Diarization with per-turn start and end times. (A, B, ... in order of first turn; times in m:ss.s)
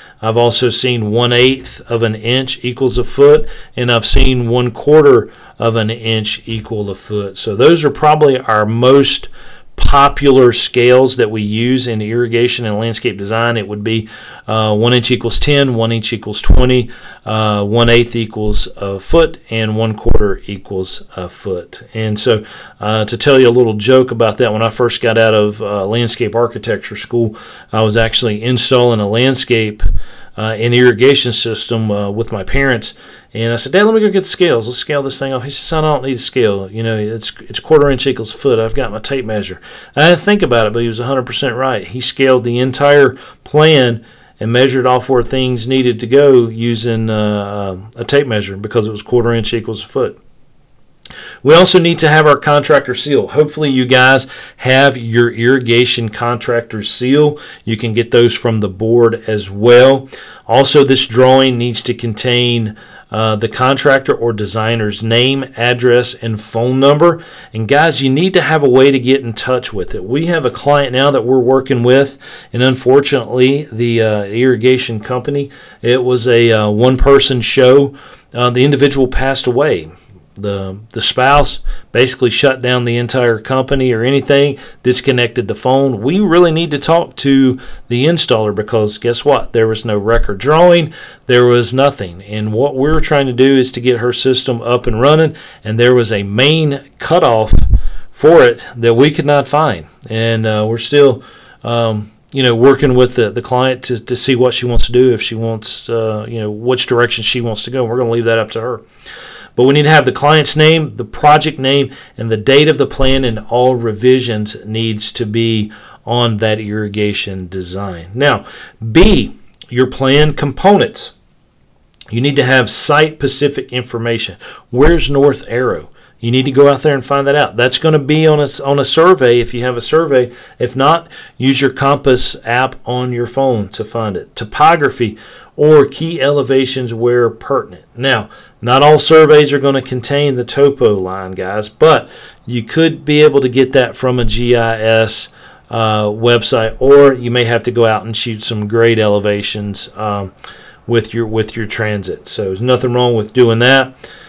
0:00.2-0:29.8 A
0:30.4-0:50.2 A
0:51.4-1:48.8 A
1:49.6-2:01.1 A
2:02.1-2:30.3 A
2:30.8-2:33.9 A